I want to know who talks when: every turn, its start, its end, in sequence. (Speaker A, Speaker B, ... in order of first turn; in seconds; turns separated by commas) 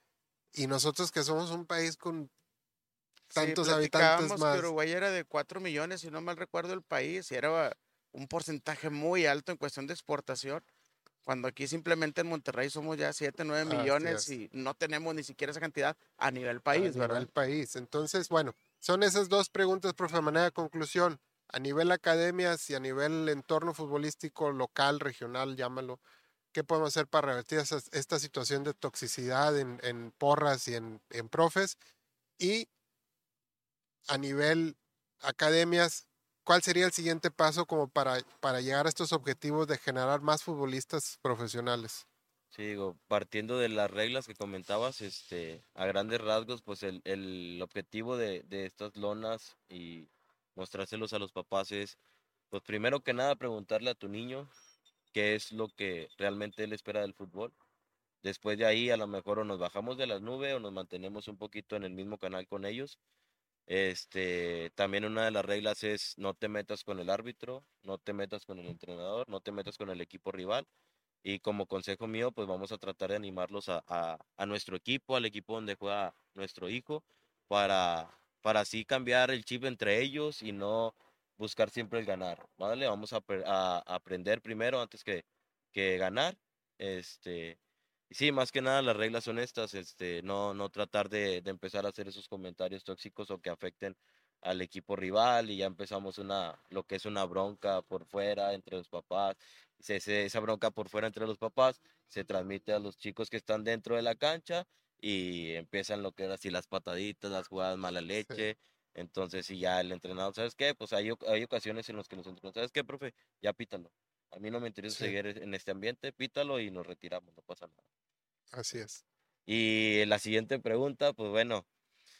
Speaker A: 0.5-2.3, Speaker A: 3.3-4.7, Speaker B: 3.3-10.6, Speaker B: 11.2-17.3, Speaker A: 13.7-14.3, Speaker A: 16.7-26.0, Speaker A: 26.5-31.8, Speaker A: 32.4-32.7, Speaker A: 34.1-42.0, Speaker C: 42.5-52.0, Speaker C: 52.5-54.5, Speaker C: 55.1-57.5, Speaker C: 58.2-63.0, Speaker C: 63.7-70.7, Speaker C: 71.2-87.6, Speaker C: 88.1-117.8, Speaker A: 118.5-119.0, Speaker C: 119.5-121.6